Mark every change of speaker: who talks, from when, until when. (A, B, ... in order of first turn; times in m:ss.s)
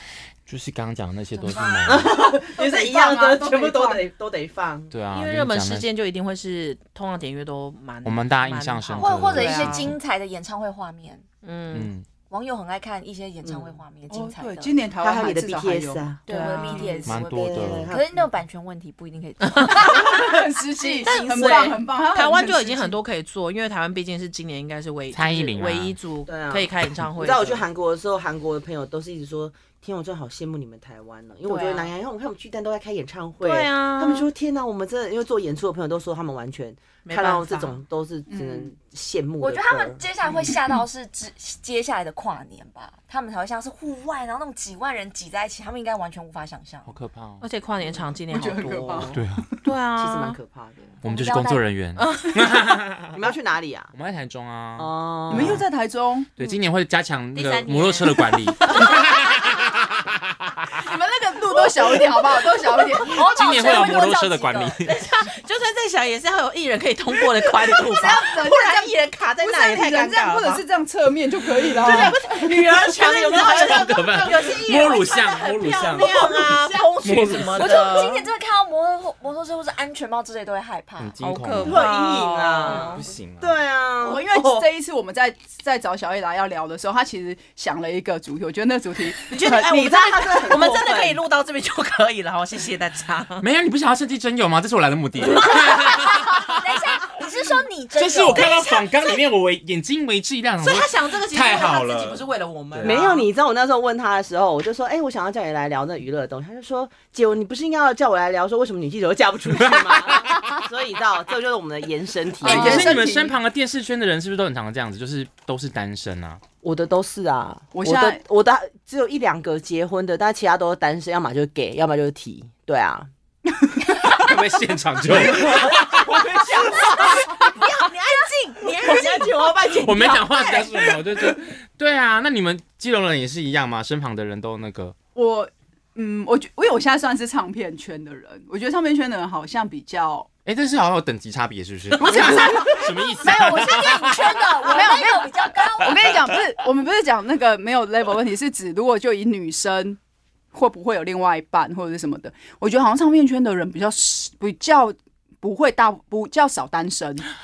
0:00.5-0:02.1 A
0:01.4-0:02.1 B
0:01.9-0:04.9 C
0:02.1-0:04.1 D
0:04.9-0:05.9 A
0:05.1-0:09.9 E
0:08.0-0:10.0 A
0:09.0-0:11.3 B
0:11.4-0:11.9 E
0:11.7-0:12.0 A
0:12.3-0:14.8 B
0:13.4-0:13.8 C
0:14.1-0:16.1 D
0:15.0-0:18.3 C
0:16.3-0:17.0 E
0:16.3-0:20.3 B
0:17.0-0:18.0 A
0:19.4-0:20.2 E
0:19.7-0:23.0 D
0:21.0-0:27.6 E
0:21.2-0:21.7 C
0:25.1-0:26.0 A
0:26.3-0:40.0 C
0:31.5-0:31.8 B
0:33.4-0:34.3 E
0:37.0-0:37.7 E
0:38.3-0:38.7 D
0:39.4-0:46.9 B
0:46.9-0:47.4 A
0:47.4-0:49.0 E
0:48.3-0:49.6 D
0:48.6-0:49.2 C
0:49.1-0:49.5 A
0:49.6-0:50.4 E
0:50.0-0:51.0 C
0:51.0-0:53.2 A
0:51.0-0:51.6 B
0:52.0-0:52.6 E
0:53.1-0:53.9 C
0:53.9-0:55.6 A
0:54.8-0:55.6 C
0:55.3-0:56.3 D
0:56.4-1:00.8 A
0:57.3-0:59.6 E
1:00.8-1:03.2 D
1:03.0-1:04.8 B
1:03.1-1:05.0 A
1:04.8-1:10.6 E
1:07.8-1:12.4 D
1:11.8-1:18.3 E
1:11.9-1:14.4 C
1:13.5-1:16.4 A
1:15.8-1:17.4 C
1:17.0-1:17.8 A
1:17.6-1:21.2 B
1:21.0-1:21.9 A
1:21.2-1:23.0 E
1:21.6-1:24.7 C
1:22.7-1:23.6 A
1:24.0-1:29.9 D
1:29.3-1:31.2 C
1:29.5-1:33.4 E
1:33.4-1:37.2 A
1:35.4-1:39.2 B
1:38.0-1:43.0 A
1:40.6-1:43.3 E
1:42.8-1:53.0 C
1:49.7-1:50.4 A
1:52.4-1:53.4 D
1:52.4-1:56.4 A
1:56.6-2:03.1 C
1:57.7-1:58.2 D
2:04.0-2:06.2 A
2:05.2-2:07.4 C
2:07.0-2:09.0 E
2:07.1-2:09.1 B
2:08.6-2:11.0 C
2:09.7-2:15.0 A
2:15.2-2:20.3 D
2:20.5-2:24.8 A
2:22.0-2:22.9 D
2:23.2-2:26.2 B
2:24.7-2:30.0 D
2:30.5-2:37.3 D